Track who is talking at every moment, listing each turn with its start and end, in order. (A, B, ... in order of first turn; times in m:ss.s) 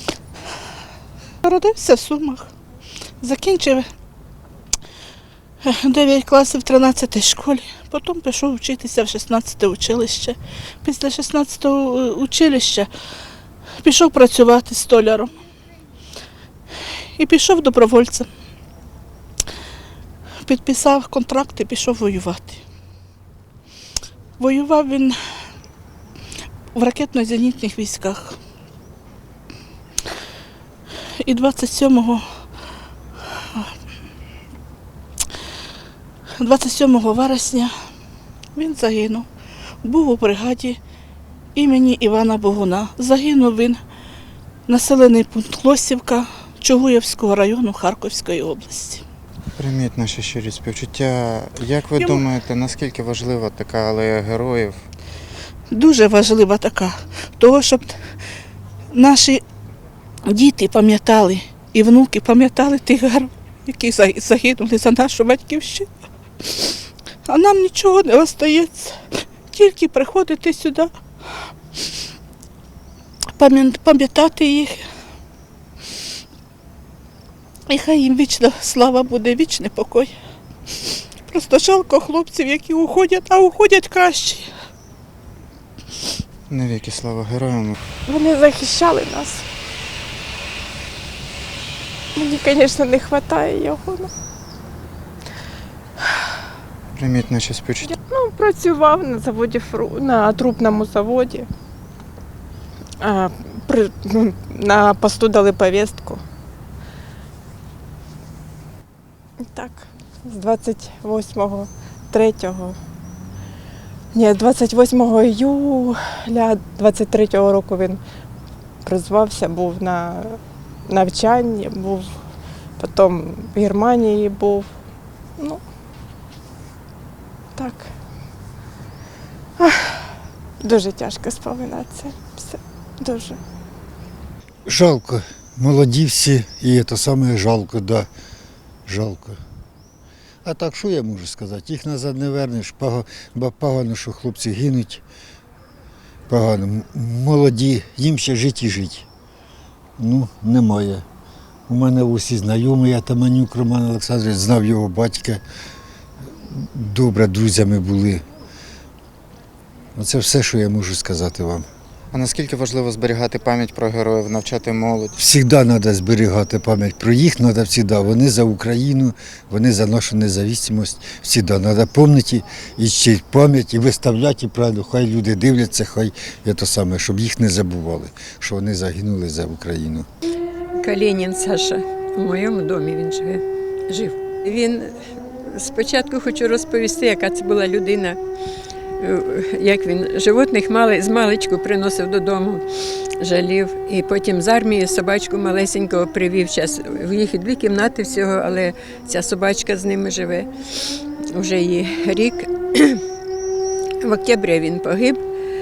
0:01.4-0:02.5 A
0:03.2-0:03.9 A
0:05.6-0:12.9 A
0:13.8-0:15.3 A
0:17.2-0:18.3 A
0:20.4-0:22.6 A
0:24.4-0:25.2 A
0:26.8-0:28.4 A
0:31.2-0:32.4 A
0:36.4-0:37.7 A
0:38.6-0:39.3 A
0:39.8-0:40.8 A
0:41.6-0:43.8 A
0:44.7-0:49.0 A
0:49.6-0:54.8 B
0:52.0-0:52.2 A
0:55.7-0:57.9 A
0:58.9-0:59.4 A
1:00.3-1:05.9 A
1:07.3-1:10.9 A
1:13.4-1:14.8 A
1:17.7-1:20.1 A
1:21.3-1:24.5 A
1:26.5-1:27.8 B
1:28.1-1:29.4 C
1:32.2-1:34.1 C
1:37.0-1:37.9 B
1:37.8-1:41.5 C
1:43.0-1:46.2 C
1:49.4-1:52.8 C
1:54.1-1:58.0 C
1:58.8-2:02.1 C
2:02.8-2:04.7 C
2:07.6-2:07.9 C
2:09.6-2:10.0 C
2:10.6-2:13.4 C
2:14.7-2:18.1 D
2:18.9-2:19.4 D
2:20.4-2:25.0 D
2:26.3-2:29.0 D
2:30.0-2:31.0 D
2:31.7-2:35.4 D
2:36.5-2:38.2 D
2:40.0-2:41.6 D
2:42.1-2:45.1 B
2:45.2-3:00.1 D
3:00.8-3:08.2 E
3:09.0-3:12.6 E
3:13.2-3:20.5 E
3:21.3-3:23.0 E
3:24.0-3:25.2 E